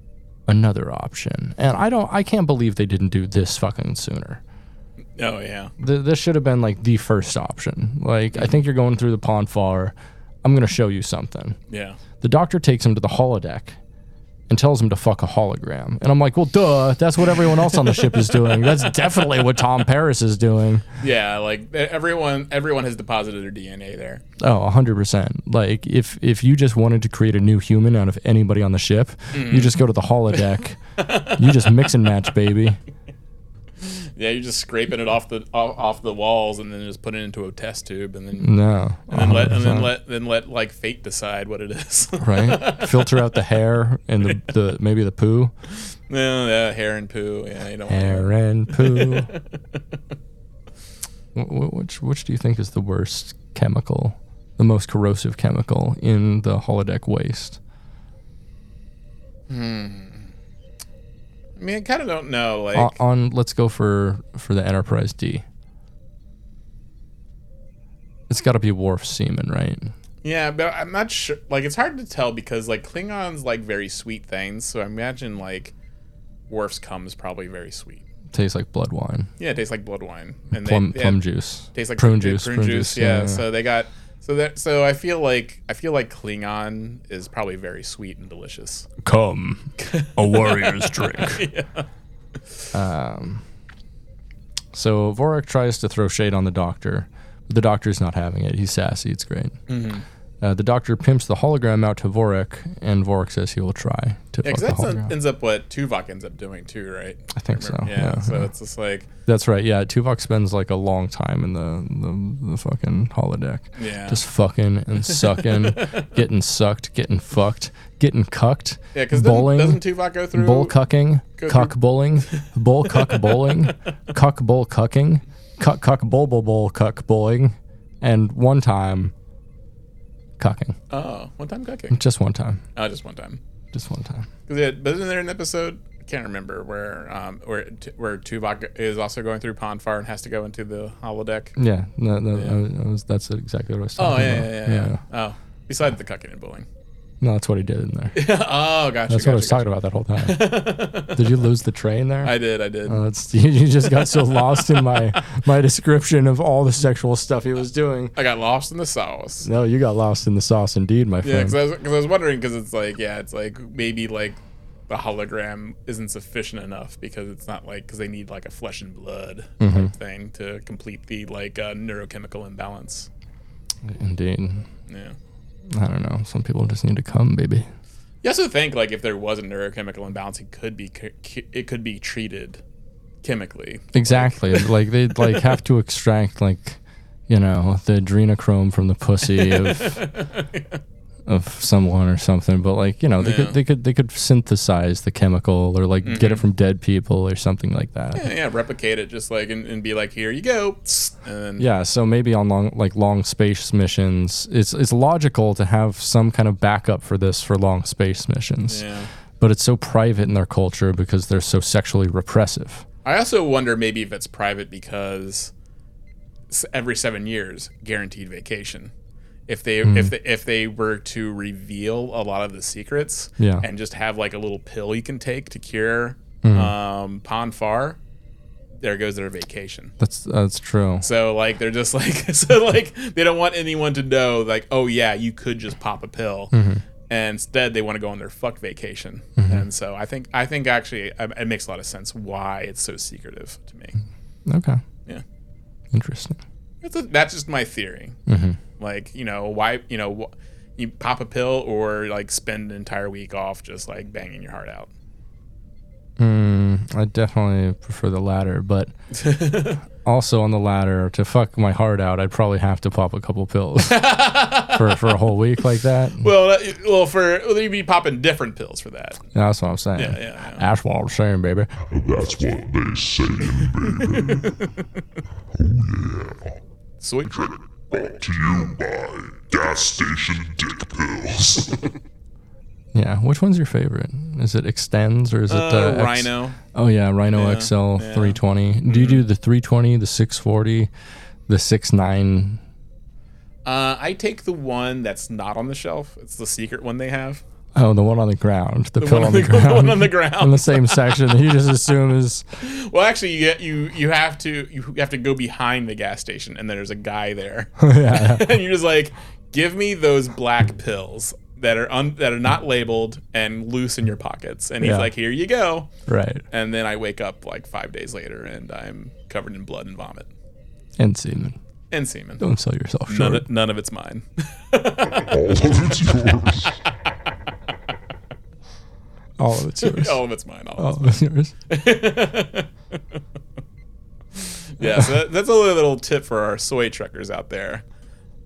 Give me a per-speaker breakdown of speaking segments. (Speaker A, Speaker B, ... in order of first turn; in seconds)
Speaker A: 0.5-4.4, 5.8-11.6, 12.2-13.8, 14.5-20.8, 24.4-32.8, 38.4-39.9, 42.2-45.5, 47.9-49.3, 51.3-57.6, 62.7-65.4, 68.3-69.9, 78.3-79.3, 80.5-83.4, 89.0-91.4, 92.7-93.4, 94.7-99.6, 100.4-105.1, 107.3-108.4, 109.2-129.1, 130.4-130.8, 131.9-132.6, 133.7-134.3, 141.6-145.0, 147.2-148.2, 149.1-150.5, 151.1-152.3, 152.8-158.1, 159.4-161.6, 169.6-169.9, 173.8-174.7, 175.7-177.7, 183.9-190.0, 191.2-198.3, 201.6-208.8, 209.4-212.8, 219.8-220.1, 223.4-223.7, 226.4-226.7, 230.0-231.0, 236.5-236.8, 239.4-239.7, 244.4-244.8, 245.9-246.4, 248.3-248.6, 256.2-258.9, 260.0-264.0, 264.7-266.2, 269.3-271.7, 282.9-290.9, 291.5-292.6, 297.7-302.4, 307.8-308.5, 314.8-315.1, 316.1-316.4, 321.0-321.6, 322.4-323.4, 329.4-330.2, 330.8-331.5, 334.8-335.1
Speaker B: 5.2-5.7, 8.3-8.6, 11.7-12.0, 17.7-18.9, 21.0-24.2, 29.3-29.8, 31.0-32.1, 33.8-43.3, 45.7-49.4, 59.5-60.3, 61.6-62.9, 70.2-75.7, 76.5-78.0, 79.4-81.2, 81.7-88.9, 89.8-91.9, 99.7-100.0, 104.4-109.1, 113.8-114.2, 115.1-116.1, 118.9-120.7, 121.4-123.5, 130.9-132.0, 132.7-133.4, 134.5-141.5, 144.0-146.7, 148.1-151.2, 152.2-153.0, 153.8-155.2, 158.1-159.5, 161.2-173.1, 174.9-175.2, 178.2-182.6, 183.2-185.4, 189.3-190.8, 193.2-193.6, 196.0-196.4, 198.1-201.7, 208.7-209.1, 213.0-215.5, 216.5-218.9, 219.5-228.0, 228.8-229.9, 231.0-236.5, 237.1-244.0, 246.8-248.2, 248.8-254.9, 259.1-259.8, 263.8-265.3, 266.2-269.2, 269.9-270.6, 274.1-274.7, 277.0-277.5, 285.5-286.6, 287.3-289.2, 293.6-297.4, 299.0-301.5, 302.6-315.9, 316.5-320.3, 321.9-322.4, 323.1-325.3, 329.8-331.2, 331.7-332.7, 334.3-337.8
Speaker C: 271.9-274.6, 275.5-276.5, 277.3-281.9, 325.1-326.8